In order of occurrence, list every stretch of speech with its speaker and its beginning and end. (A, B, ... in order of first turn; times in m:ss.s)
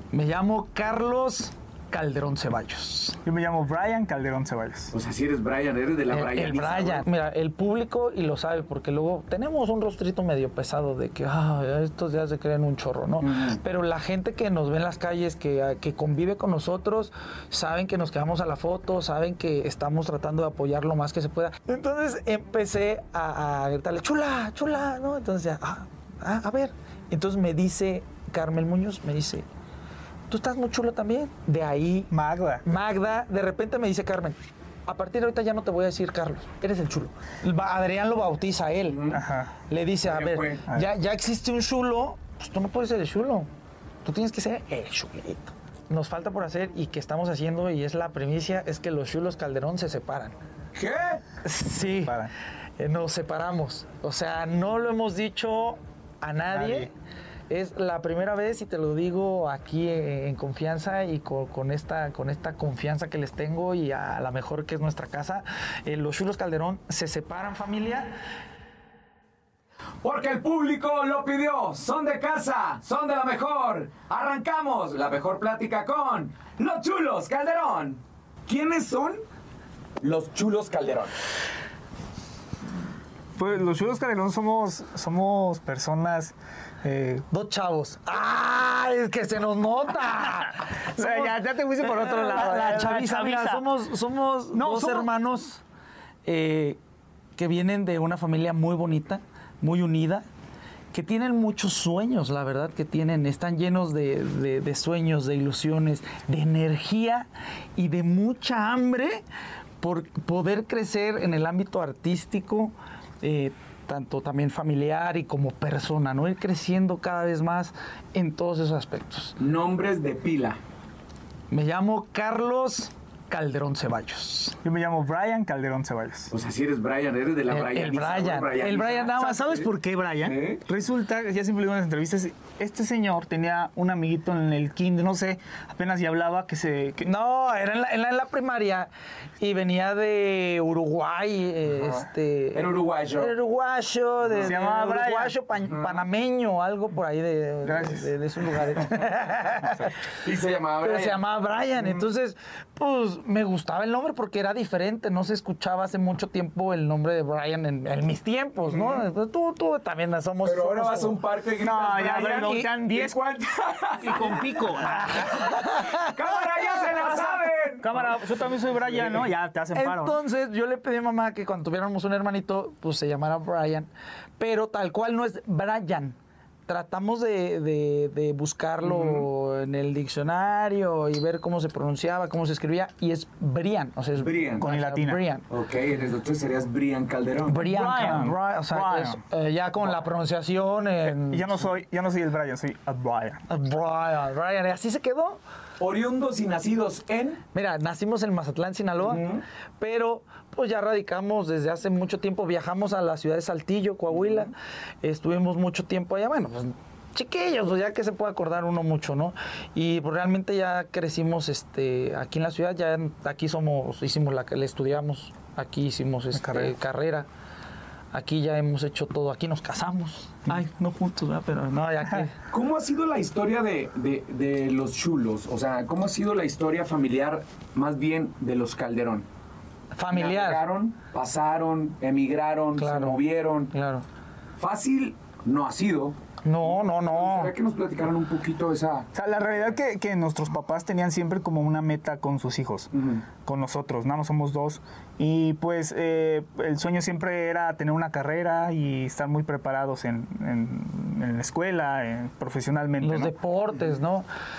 0:00.1-0:03.2 A
0:03.2-0:04.9 B
0:04.9-0:07.0 C
0:06.1-0:29.4 A
0:13.2-0:13.6 C
0:30.3-0:32.1 A
0:32.1-0:32.6 B
0:32.6-0:39.2 A
0:38.9-0:39.2 C
0:39.1-0:39.6 B
0:39.7-0:43.5 A
0:40.0-0:40.6 C
0:44.0-0:50.4 A
0:50.8-0:51.2 C
0:51.4-0:56.9 A
0:52.0-0:52.3 B
0:56.5-0:56.9 B
0:57.5-1:08.1 A
1:10.0-1:19.2 C
1:20.0-1:21.1 C
1:23.4-1:27.3 B
1:27.3-1:35.6 A
1:30.9-1:33.6 B
1:34.5-1:35.1 B
1:36.2-1:36.8 A
1:37.4-1:40.2 A
1:40.9-1:49.2 A
1:49.8-1:59.4 A
1:59.4-2:00.6 C
2:01.5-2:04.6 A
2:04.6-2:06.3 B
2:06.3-2:09.3 C
2:07.5-2:09.6 A
2:09.1-2:17.1 B
2:10.2-2:10.6 C
2:17.0-2:29.9 A
2:21.7-2:23.3 C
2:24.2-2:24.5 C
2:24.4-2:25.3 B
2:25.6-2:26.0 C
2:27.6-2:28.1 B
2:29.6-2:29.9 B
2:30.0-2:31.2 C
2:30.8-2:41.2 A
2:38.7-2:39.0 C
2:40.4-2:48.2 C
2:41.6-2:43.2 B
2:42.3-2:42.7 A
2:44.0-2:45.3 B
2:44.8-2:46.2 A
2:46.9-2:50.2 B
2:49.7-2:56.2 A
2:56.7-3:05.5 A
2:58.8-2:59.2 C
3:04.2-3:04.7 C
3:04.6-3:05.2 B
3:05.5-3:07.6 C
3:07.5-3:11.7 A
3:07.6-3:09.2 B
3:11.1-3:13.4 B
3:13.5-3:15.4 A
3:15.8-3:17.4 C
3:17.5-3:37.3 A
3:19.0-3:19.4 C
3:24.1-3:24.5 C
3:36.4-3:36.8 B
3:38.1-3:42.4 A
3:42.5-3:49.3 C
3:50.0-3:50.6 A
3:50.1-3:53.7 C
3:52.8-3:53.2 A
3:53.7-3:54.0 A
3:54.6-3:59.1 C
3:56.4-3:57.5 A
3:59.1-4:02.9 B
4:02.9-4:03.2 C
4:03.4-4:13.3 B
4:13.0-4:14.3 A